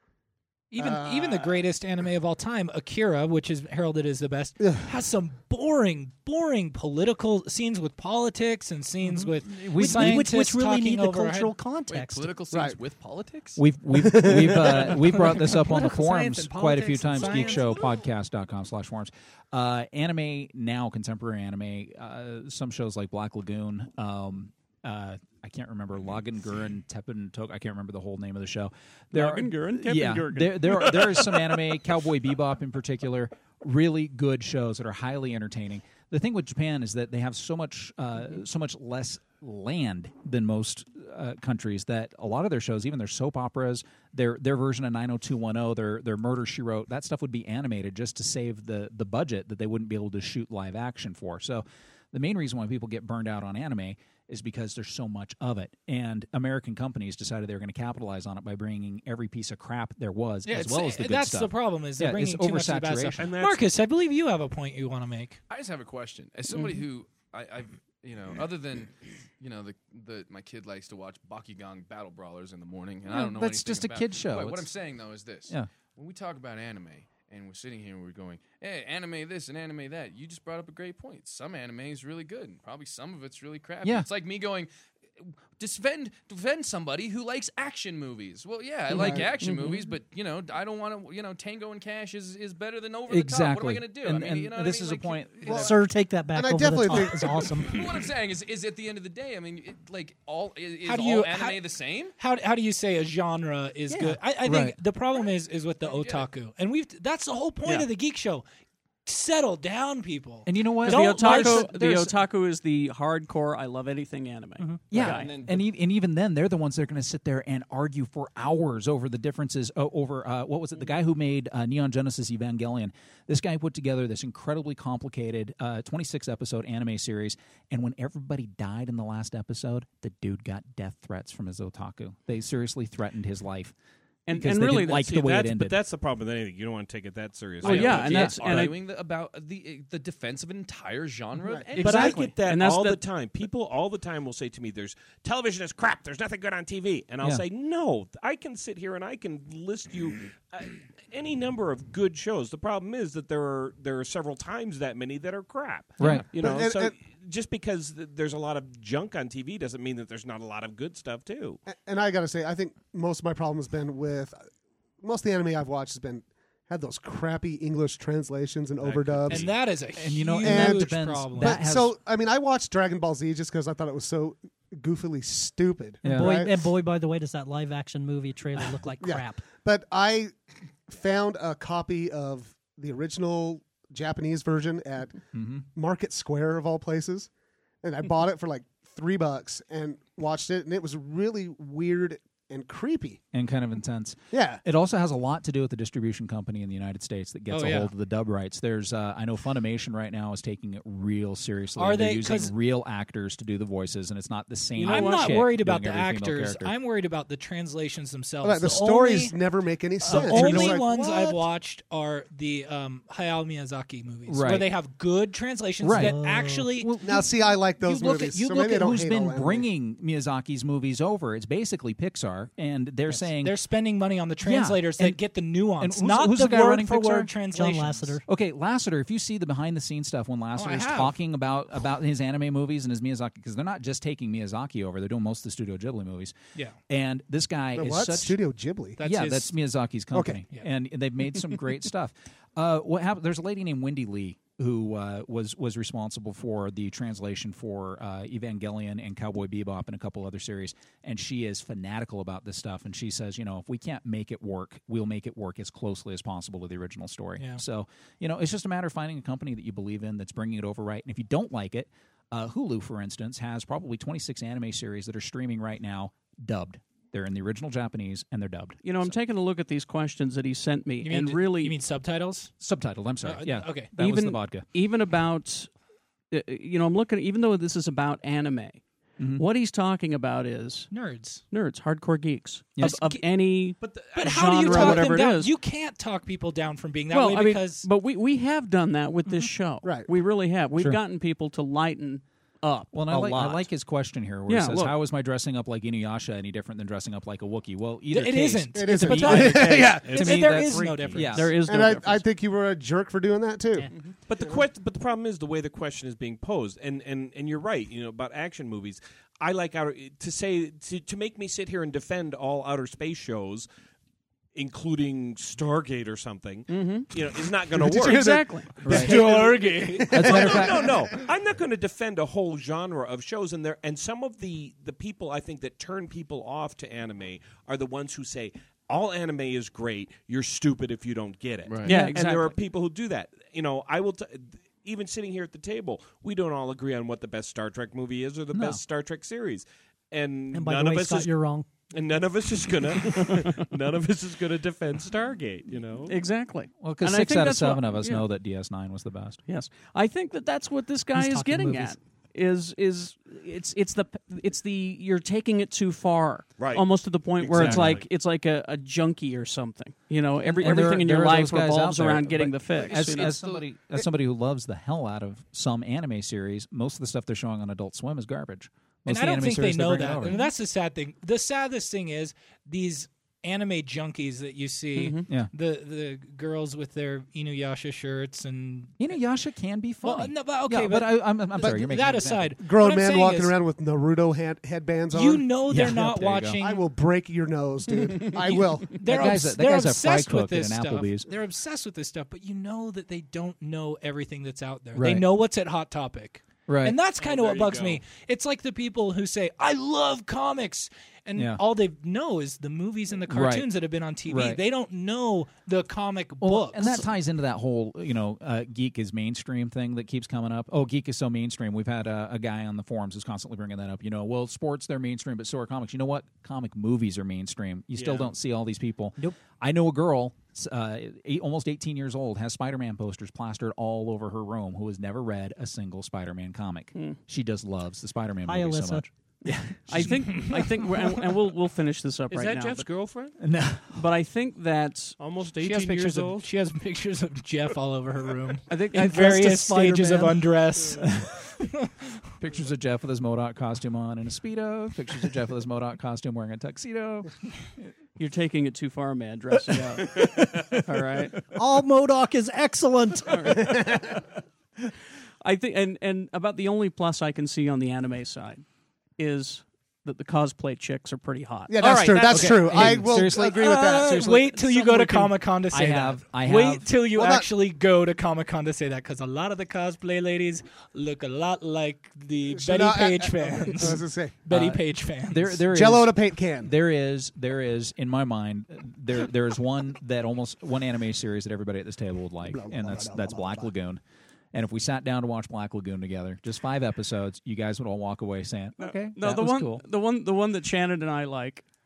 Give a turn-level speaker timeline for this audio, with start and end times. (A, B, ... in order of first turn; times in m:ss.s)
0:00.7-0:11.6 A
0:00.8-0:01.6 B
0:04.6-0:04.9 B
0:09.1-0:12.3 C
0:09.4-0:10.3 D
0:11.9-0:13.6 E
0:12.5-0:12.8 B
0:13.6-1:03.3 D
0:13.9-0:15.0 B
0:15.0-0:17.9 A
0:29.1-0:31.2 F
1:00.5-1:05.4 A
1:03.2-1:03.7 G
1:05.5-1:24.7 E
1:13.0-1:14.7 D
1:25.2-1:35.7 E
1:28.9-1:29.3 B
1:29.4-1:29.9 F
1:33.1-1:35.7 D
1:35.5-1:35.7 B
1:35.5-1:37.8 C
1:36.3-1:37.6 B
1:37.6-1:42.2 E
1:40.8-1:41.7 A
1:42.2-1:48.4 A
1:43.9-1:44.2 C
1:44.4-1:44.8 D
1:45.8-1:46.3 E
1:49.1-1:51.7 A
1:50.5-1:52.2 D
1:50.8-1:55.3 F
1:54.9-2:13.7 D
1:54.9-1:55.7 E
2:14.3-2:15.1 F
2:14.3-2:15.8 D
2:14.9-2:18.7 G
2:17.6-2:18.4 D
2:17.6-2:18.8 F
2:17.6-2:22.2 E
2:21.4-2:21.7 B
2:21.8-2:23.0 F
2:21.8-2:41.6 G
2:36.0-2:36.3 D
2:36.0-2:36.3 E
2:36.3-2:37.0 B
2:41.6-2:44.4 B
2:45.0-2:49.5 B
2:48.8-2:49.7 G
2:49.3-2:51.6 A
2:50.0-2:52.0 D
2:50.4-2:56.7 B
2:56.0-2:56.4 D
2:56.0-2:59.4 C
2:59.0-3:00.4 B
3:00.9-3:07.3 B
3:05.3-3:05.6 D
3:07.8-3:13.2 B
3:13.3-3:26.7 D
3:14.3-3:14.6 B
3:17.5-3:17.9 A
3:21.8-3:22.5 A
3:24.8-3:29.3 A
3:24.8-3:25.4 F
3:28.4-3:31.5 B
3:30.0-3:37.0 A
3:30.0-3:30.8 D
3:34.3-3:34.7 D
3:35.8-3:36.2 D
3:35.9-3:36.8 C
3:36.7-3:43.6 D
3:37.0-3:39.7 B
3:43.1-3:48.2 A
3:44.4-3:45.2 D
3:45.8-3:47.4 D
3:47.4-3:48.2 C
3:48.2-3:56.4 D
3:50.6-3:51.2 A
3:56.9-3:58.4 D
3:57.8-3:59.0 B
3:59.0-3:59.5 A
3:59.0-4:29.2 D
4:00.1-4:00.4 B
4:28.8-4:31.8 F
4:31.0-4:32.5 A
4:32.6-4:34.7 D
4:33.2-4:33.9 A
4:34.0-4:35.7 F
4:36.3-4:38.8 F
4:39.2-4:39.4 D
4:39.3-4:40.9 F
4:40.9-4:41.4 A
4:41.5-4:45.5 F
4:42.8-4:43.2 A
4:43.8-4:44.9 G
4:44.2-4:47.9 A
4:47.1-4:53.7 F
4:49.8-4:50.1 B
4:52.9-5:01.6 D
4:54.5-4:55.0 F
4:58.1-5:01.5 A
4:58.8-5:00.3 B
4:59.8-5:01.3 G
5:01.3-5:02.2 F
5:01.6-5:04.6 B
5:04.3-5:13.7 G
5:14.5-5:41.3 G
5:16.7-5:17.1 F
5:17.8-5:18.7 F
5:18.0-5:19.2 B
5:18.8-5:20.7 A
5:18.8-5:19.2 D
5:20.0-5:20.9 B
5:20.1-5:21.0 D
5:31.7-5:31.9 E
5:31.8-5:32.6 F
5:38.5-5:38.8 D
5:40.5-5:41.7 C
5:41.9-5:46.2 G
5:46.1-5:48.2 F
5:46.8-5:49.4 D
5:49.5-6:03.4 F
5:51.2-5:52.0 C
5:56.6-5:58.1 G
5:57.6-5:58.0 D
6:00.4-6:10.4 D
6:02.8-6:03.7 E
6:09.1-6:19.0 A
6:15.0-6:15.2 F
6:19.0-6:22.6 D
6:20.0-6:23.6 A
6:22.6-6:25.5 B
6:25.1-6:26.9 A
6:25.7-6:26.6 D
6:26.6-6:29.0 B
6:28.3-6:47.0 A
6:29.0-6:31.3 D
6:35.0-6:35.3 D
6:36.7-6:37.0 D
6:37.2-6:38.1 G
6:41.4-6:41.6 D
6:43.3-6:43.7 D
6:44.3-6:44.6 D
6:46.4-7:10.6 D
6:57.9-6:58.3 G
7:08.4-7:09.1 C
7:09.5-7:12.9 F
7:10.4-7:10.6 A
7:12.3-7:13.4 G
7:13.4-7:14.1 D
7:13.9-7:15.2 F
7:15.2-7:16.5 G
7:15.6-7:21.9 A
7:18.7-7:19.8 F
7:19.0-7:20.6 C
7:21.0-7:21.4 D
7:22.4-7:27.3 D
7:28.2-7:31.4 F
7:31.5-7:33.8 C
7:33.3-7:33.6 F
7:33.6-7:34.2 B
7:35.4-7:38.6 F
7:39.2-7:43.0 F
7:41.7-7:44.3 B
7:42.3-7:46.9 D
7:43.5-7:55.6 A
7:44.6-7:45.2 F
7:47.1-7:47.5 B
7:52.6-7:54.4 B
7:54.5-8:04.0 D
7:55.7-7:56.7 B
8:02.5-8:03.7 B
8:04.5-8:09.8 D
8:08.8-8:11.6 F